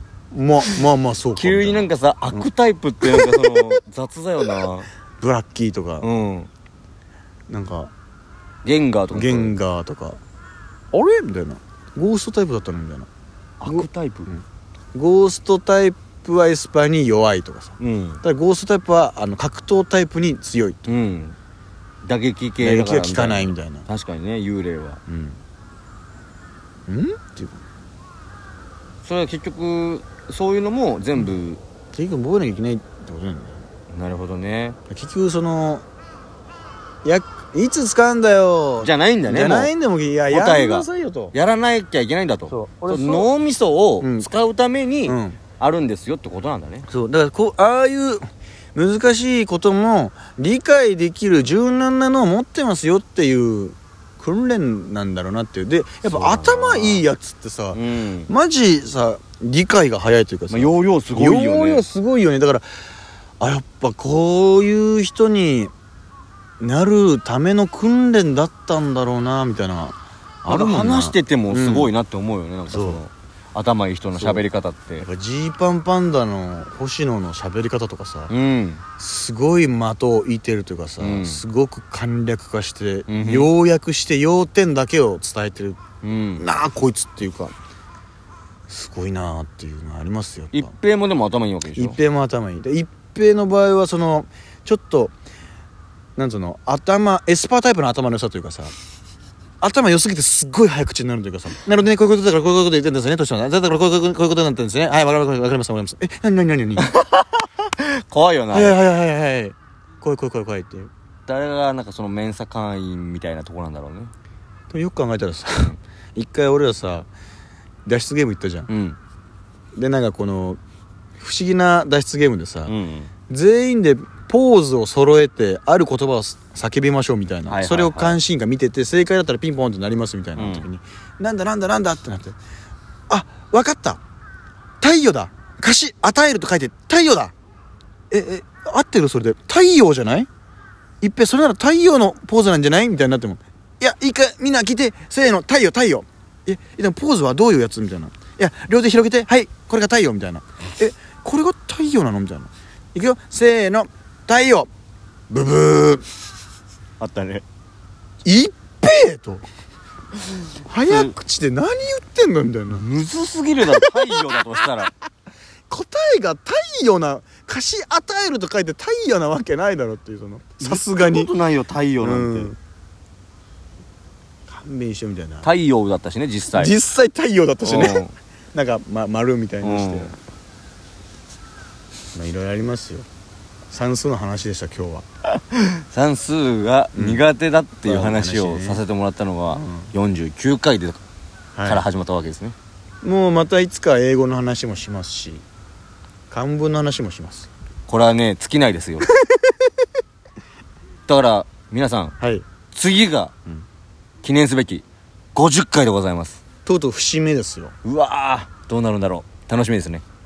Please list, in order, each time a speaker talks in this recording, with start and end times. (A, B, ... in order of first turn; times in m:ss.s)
0:00.3-0:02.5 A
0:01.4-0:04.9 B
0:03.0-0:03.8 A
0:05.2-0:06.1 A
0:06.0-0:06.5 B
0:07.5-0:07.9 A
0:08.6-0:09.6 B
0:09.1-0:10.2 A
0:10.9-0:13.1 A
0:13.6-0:14.3 B
0:13.6-0:14.4 A
0:14.9-0:20.9 A
0:17.8-0:18.2 B
0:20.9-0:21.4 B
0:22.0-0:25.0 B
0:22.6-0:23.9 A
0:25.1-0:25.4 A
0:26.9-0:27.6 A
0:29.0-0:31.6 B
0:31.9-0:33.6 A
0:33.9-0:34.8 B
0:34.9-0:35.8 A
0:37.0-0:41.3 A
0:38.8-0:39.7 B
0:40.3-0:46.9 B
0:42.5-0:43.3 A
0:44.0-0:44.3 A
0:45.1-0:45.4 A
0:46.9-0:48.2 A
0:48.8-1:02.7 A
0:56.0-0:57.0 B
0:57.7-0:58.3 B
1:00.5-1:01.8 B
1:03.4-1:05.7 A
1:06.6-1:11.9 A
1:10.5-1:15.1 B
1:12.7-1:13.0 A
1:14.2-1:14.4 A
1:15.0-1:18.3 A
1:18.3-1:18.8 B
1:19.0-1:25.8 A
1:21.0-1:21.4 B
1:23.1-1:23.5 B
1:26.0-1:26.4 B
1:26.4-1:27.5 A
1:28.7-1:30.7 A
1:30.5-1:32.0 B
1:31.8-1:35.1 A
1:36.2-1:38.7 A
1:39.6-1:46.9 A
1:46.8-1:48.8 B
1:48.5-1:50.9 A
1:51.3-1:54.1 B
1:54.7-1:57.1 A
1:57.9-1:58.7 A
1:58.7-1:59.0 B
1:59.8-2:00.6 A
2:01.2-2:02.7 A
2:02.7-2:03.1 B
2:03.3-2:12.4 A
2:07.5-2:08.2 B
2:10.4-2:10.7 B
2:13.1-2:14.0 A
2:14.8-2:17.3 A
2:18.1-2:20.3 A
2:21.0-2:34.7 A
2:35.3-2:36.0 A
2:37.0-2:37.4 B
2:38.2-2:39.4 A
2:40.6-2:42.8 A
2:42.7-2:44.9 B
2:43.7-2:44.4 A
2:45.7-2:51.3 A
2:50.6-2:52.5 B
2:52.0-2:52.6 A
2:54.5-2:55.5 A
2:55.4-2:56.7 B
2:56.5-3:00.2 A
2:57.6-2:58.1 B
2:59.6-3:00.1 B
3:02.1-3:03.1 A
3:03.7-3:05.1 A
3:05.4-3:11.0 B
3:07.0-3:07.2 A
3:07.8-3:08.8 A
3:09.5-3:09.9 A
3:11.6-3:11.8 A
3:11.6-3:12.6 B
3:13.0-3:15.4 A
3:16.3-3:17.5 A
3:17.9-3:19.1 B
3:21.1-3:22.2 B
3:22.2-3:22.4 A
3:22.7-3:23.3 B
3:24.2-3:24.8 B
3:25.4-3:26.4 B
3:26.6-3:27.8 A
3:27.8-3:30.0 B